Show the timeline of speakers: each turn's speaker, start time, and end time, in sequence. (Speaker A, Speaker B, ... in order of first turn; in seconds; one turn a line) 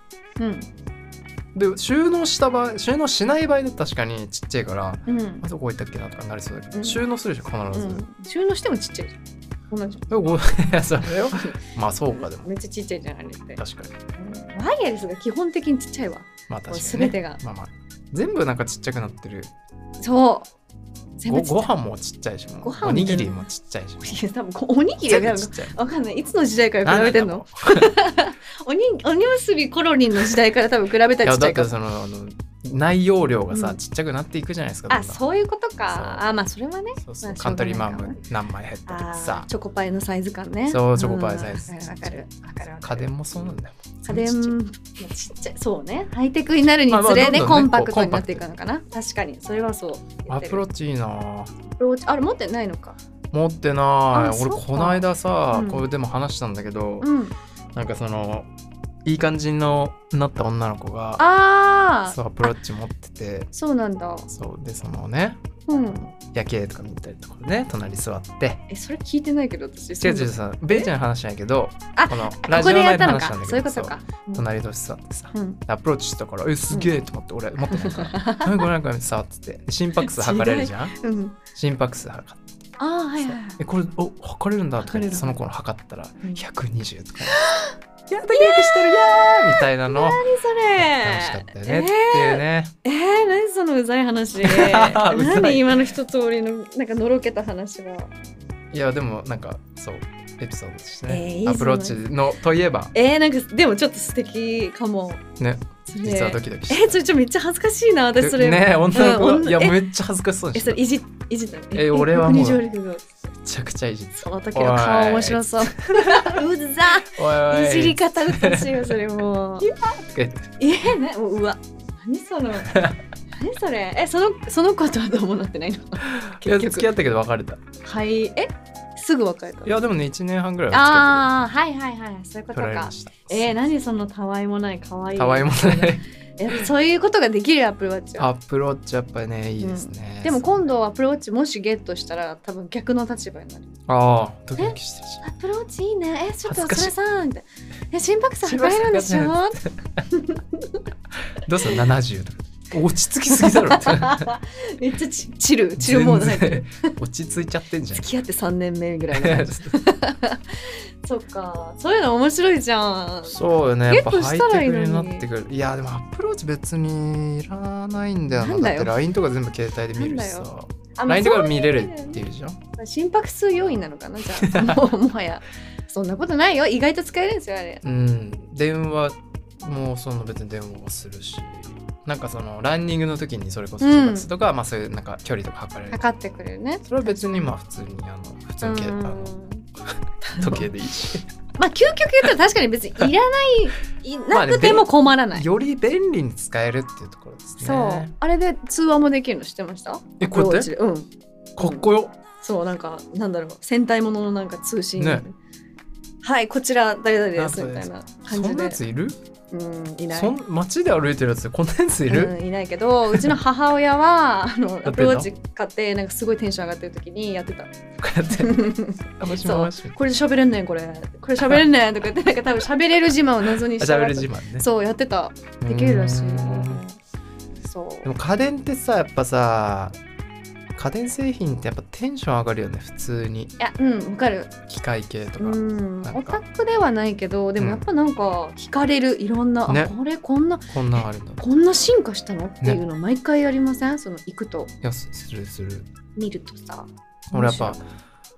Speaker A: 0.4-0.7
Speaker B: 1.5-8.0
Speaker A: 5.1-5.4
Speaker A: 6.7-7.0
Speaker A: 7.7-10.1
Speaker B: 10.1-12.5
Speaker A: 11.3-11.6
Speaker A: 12.2-13.6
Speaker B: 13.6-13.9
Speaker A: 14.1-17.4
Speaker B: 16.5-19.5
Speaker A: 20.0-20.5
Speaker A: 21.2-21.7
Speaker B: 21.3-24.2
Speaker A: 22.6-23.5
Speaker A: 24.0-31.7
Speaker B: 25.0-25.8
Speaker B: 26.8-27.9
Speaker B: 31.2-35.2
Speaker A: 33.5-33.8
Speaker A: 34.9-38.2
Speaker B: 35.9-36.3
Speaker B: 37.0-39.5
Speaker A: 38.9-50.6
Speaker B: 40.7-42.2
Speaker B: 42.8-44.5
Speaker B: 46.9-48.4
Speaker B: 50.3-51.5
Speaker A: 51.8-53.0
Speaker B: 53.3-57.1
Speaker A: 54.1-55.9
Speaker A: 57.0-57.4
Speaker B: 57.7-58.5
Speaker B: 59.0-61.2
Speaker A: 61.2-62.5
Speaker B: 62.0-63.5
Speaker A: 63.5-64.3
Speaker B: 64.3-68.6
Speaker A: 65.7-66.1
Speaker A: 68.7-70.9
Speaker B: 70.0-81.0
Speaker A: 72.0-74.4
Speaker A: 75.3-75.6
Speaker A: 76.7-77.0
Speaker A: 77.7-78.7
Speaker A: 80.0-81.4
Speaker B: 81.5-82.4
Speaker A: 82.8-83.6
Speaker B: 83.2-87.3
Speaker A: 84.8-85.4
Speaker A: 87.2-87.7
Speaker B: 88.1-90.2
Speaker A: 88.3-98.1
Speaker B: 90.8-92.7
Speaker B: 94.4-95.9
Speaker B: 98.7-102.9
Speaker A: 101.1-102.0
Speaker A: 102.9-105.2
Speaker B: 105.4-107.0
Speaker A: 105.9-109.8
Speaker B: 108.2-110.8
Speaker A: 110.5-113.2
Speaker B: 111.7-112.6
Speaker B: 113.5-116.4
Speaker A: 114.1-119.7
Speaker B: 117.1-118.9
Speaker B: 119.6-120.5
Speaker A: 120.6-126.9
Speaker B: 122.7-123.0
Speaker B: 126.0-127.6
Speaker A: 127.8-129.8
Speaker B: 129.6-131.3
Speaker A: 130.7-138.3
Speaker B: 132.5-133.6
Speaker B: 135.2-136.1
Speaker B: 138.2-140.6
Speaker A: 139.6-143.7
Speaker B: 143.9-145.2
Speaker A: 144.6-149.6
Speaker B: 146.4-146.9
Speaker B: 148.4-150.0
Speaker A: 150.1-150.8
Speaker B: 151.4-154.3
Speaker A: 153.3-156.9
Speaker B: 155.8-158.1
Speaker A: 157.9-163.4
Speaker B: 159.1-159.7
Speaker B: 163.2-172.6
Speaker A: 163.9-165.3
Speaker A: 168.3-169.0
Speaker A: 169.9-172.2
Speaker A: 172.8-177.8
Speaker B: 174.4-174.8
Speaker B: 177.8-186.0
Speaker A: 183.8-184.3
Speaker A: 185.9-187.5
Speaker B: 186.9-189.3
Speaker A: 188.6-189.7
Speaker A: 190.2-190.7
Speaker B: 190.4-191.3
Speaker A: 191.6-195.5
Speaker B: 194.3-198.1
Speaker A: 197.6-205.3
Speaker B: 200.2-200.7
Speaker B: 201.6-202.1
Speaker B: 205.0-205.2
Speaker A: 206.2-208.8
Speaker B: 207.3-209.2
Speaker A: 209.5-210.3
Speaker B: 210.1-212.3
Speaker A: 212.1-217.7
Speaker B: 213.1-213.4
Speaker B: 214.8-215.3
Speaker B: 218.0-219.9
Speaker A: 218.3-227.0
Speaker B: 223.8-224.7
Speaker B: 225.6-226.8
Speaker A: 227.6-228.1
Speaker B: 228.0-230.0
Speaker B: 230.8-233.5
Speaker A: 233.6-234.5
Speaker B: 234.7-236.4
Speaker A: 235.4-244.7
Speaker B: 237.6-237.8
Speaker B: 239.7-239.9
Speaker B: 240.7-241.4
Speaker B: 244.8-245.9
Speaker A: 246.1-247.8
Speaker B: 247.3-247.8